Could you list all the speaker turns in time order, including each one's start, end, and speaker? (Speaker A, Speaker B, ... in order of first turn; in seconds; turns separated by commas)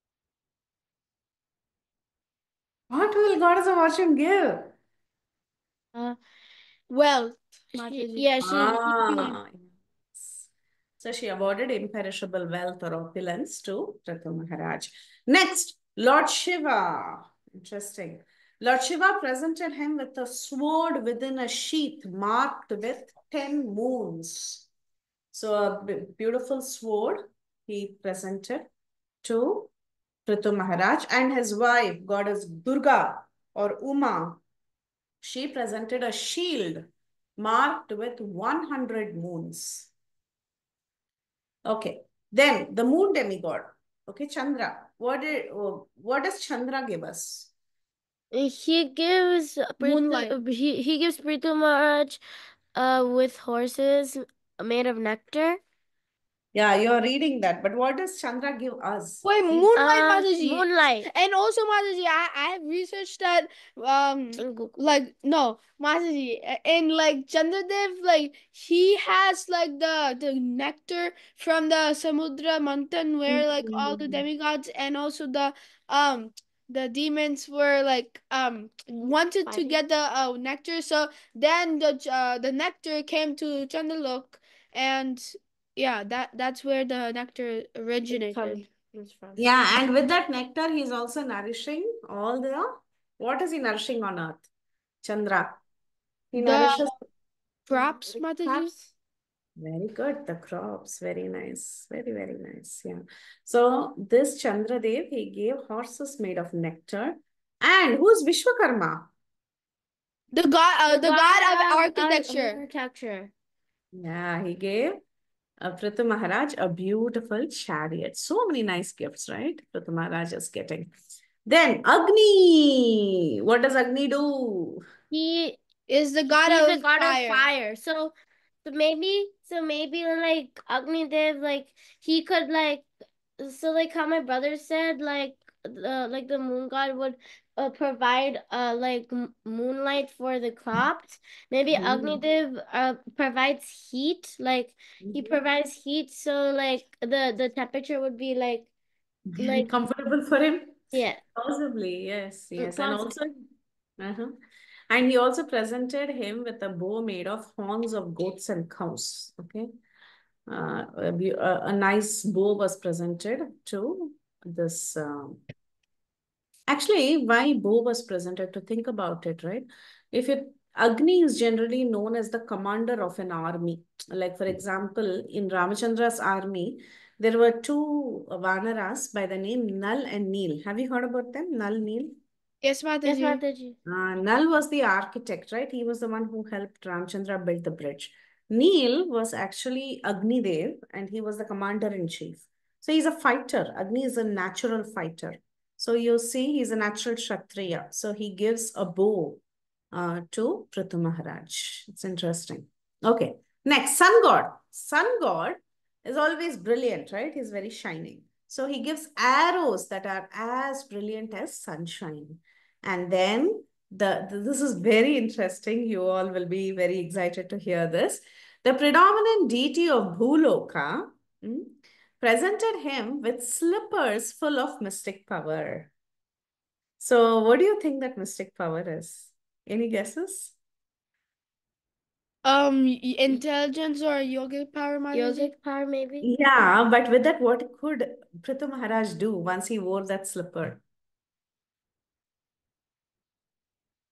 Speaker A: 2.9-4.7, Speaker B: 6.9-8.3, Speaker C: 7.7-9.3, Speaker A: 8.4-24.6, Speaker A: 25.3-28.7, Speaker A: 29.2-29.7, Speaker A: 30.2-34.4, Speaker A: 35.2-36.9, Speaker A: 37.4-39.9, Speaker A: 41.6-47.5, Speaker C: 48.3-52.2, Speaker B: 49.8-50.3, Speaker C: 52.7-55.6, Speaker A: 56.5-59.7, Speaker B: 59.2-88.7, Speaker C: 59.7-61.1, Speaker C: 64.4-64.7, Speaker A: 73.3-74.2, Speaker C: 79.5-79.8, Speaker C: 88.1-89.4, Speaker A: 89.4-94.5, Speaker A: 95.0-95.6, Speaker A: 96.3-96.9, Speaker B: 96.3-96.9, Speaker B: 97.7-98.9, Speaker A: 97.7-98.7, Speaker A: 99.6-109.1, Speaker B: 110.3-112.6, Speaker C: 110.9-113.3, Speaker A: 113.9-115.0, Speaker A: 115.6-120.9, Speaker A: 121.5-124.8, Speaker C: 125.1-125.6, Speaker B: 125.9-127.5, Speaker C: 126.3-132.9, Speaker C: 133.4-148.7, Speaker A: 141.7-142.2, Speaker A: 145.0-145.4, Speaker A: 149.3-153.3, Speaker C: 149.4-149.7, Speaker C: 150.9-151.2, Speaker C: 152.6-153.1, Speaker A: 154.0-154.3, Speaker A: 154.9-159.7, Speaker A: 160.5-165.4, Speaker A: 166.7-182.1, Speaker B: 182.6-183.4, Speaker C: 183.0-183.8, Speaker A: 183.8-225.9, Speaker A: 227.0-230.5, Speaker B: 232.4-235.5, Speaker C: 235.1-236.3, Speaker A: 236.2-240.8